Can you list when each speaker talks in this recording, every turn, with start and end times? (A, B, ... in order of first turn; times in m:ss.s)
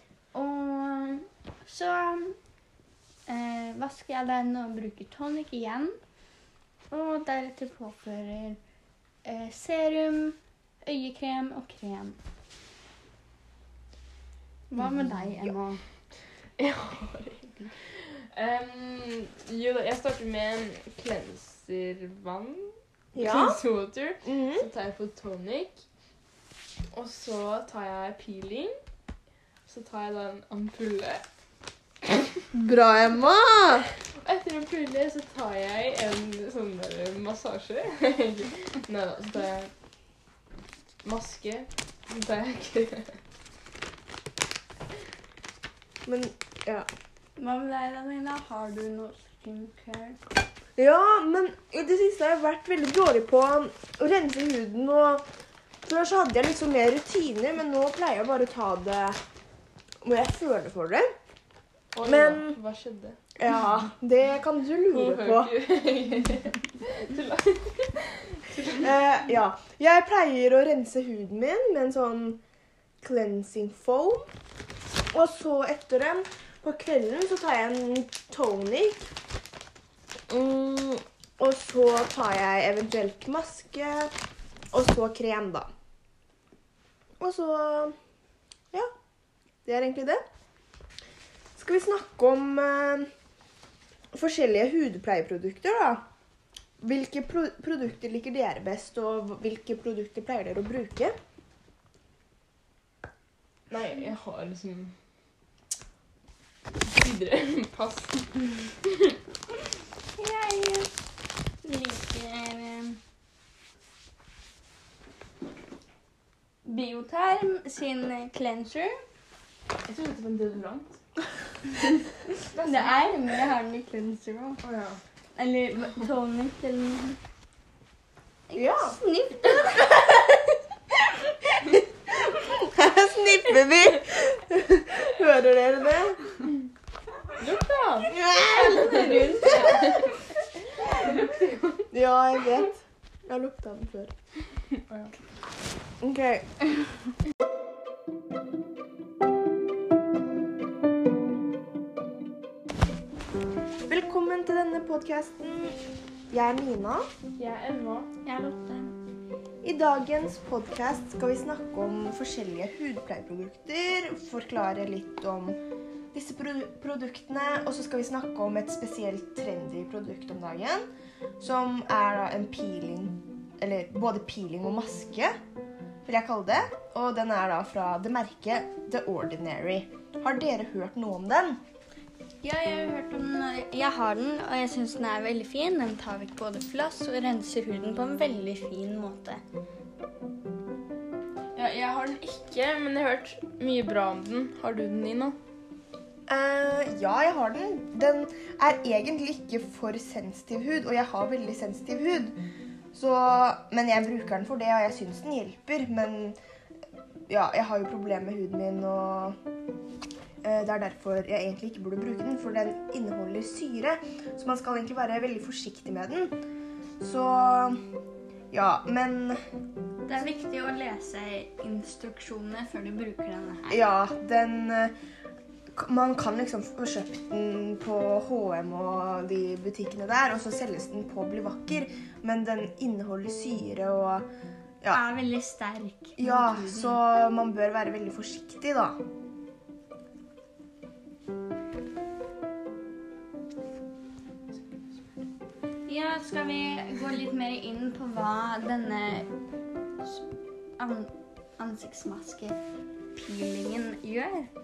0:00.3-0:02.4 A
0:03.3-0:06.0 A
0:06.9-0:08.6 A
0:09.2-0:12.2 A
0:14.7-0:15.8 A
0:16.6-0:25.8 B
0:23.1-0:23.6 C
0:24.2-0:24.7 C
0:26.9-0:28.7 B
0:29.7-0:31.2 B
0:32.5-0:33.9 C
0:34.0-0:39.7 B
0:41.0-0:43.2 B
0:46.0-0:46.9 C
0:47.4-0:50.2 A
0:50.8-0:55.3 C
0:55.8-0:59.2 C
1:00.0-1:01.1 C
1:01.9-1:03.2 B
1:02.0-1:02.6 C
1:03.4-1:05.6 C
1:04.9-1:08.9 B
1:08.6-1:12.4 C
1:13.0-1:14.3 C
1:15.1-1:19.1 C
1:20.3-1:24.1 C
1:24.7-1:25.7 C
1:27.2-1:28.0 C
1:29.6-1:30.2 C
1:31.5-1:33.1 C
1:34.1-1:36.1 C
1:36.8-1:41.1 C
1:43.7-1:45.0 B
1:46.8-1:49.2 B
1:50.2-1:50.9 A
1:51.6-1:53.0 A
1:56.6-1:59.0 A
1:59.9-2:01.0 B
2:02.5-2:02.9 B
2:02.6-2:04.6 A
2:04.6-2:05.0 B
2:05.3-2:07.2 A
2:08.5-2:10.2 A
2:08.5-2:09.0 C
2:11.6-2:16.4 C
2:17.3-2:20.1 B
2:18.1-2:20.1 C
2:18.5-2:20.1 A
2:21.0-2:21.8 B
2:21.9-2:24.1 C
2:24.8-2:25.2 B
2:26.0-2:26.5 C
2:33.9-2:35.8 C
2:36.3-2:37.1 C
2:37.4-2:38.1 B
2:38.2-2:39.0 A
2:39.6-2:45.6 C
2:46.1-2:50.8 C
2:51.4-2:55.4 C
2:56.0-3:01.6 C
3:02.4-3:09.4 A
3:11.5-3:15.4 B
3:16.3-3:22.4 C
3:22.9-3:26.4 C
3:27.3-3:29.4 C
3:30.4-3:36.4 C
3:37.0-3:37.8 C
3:38.5-3:39.4 C
3:40.0-3:43.8 A
3:43.7-3:44.9 C
3:45.7-3:54.3 C
3:54.9-3:57.0 A
3:56.2-3:59.0 C
4:05.9-4:09.3 A
4:10.0-4:10.3 A
4:10.8-4:12.6 A
4:13.1-4:14.5 A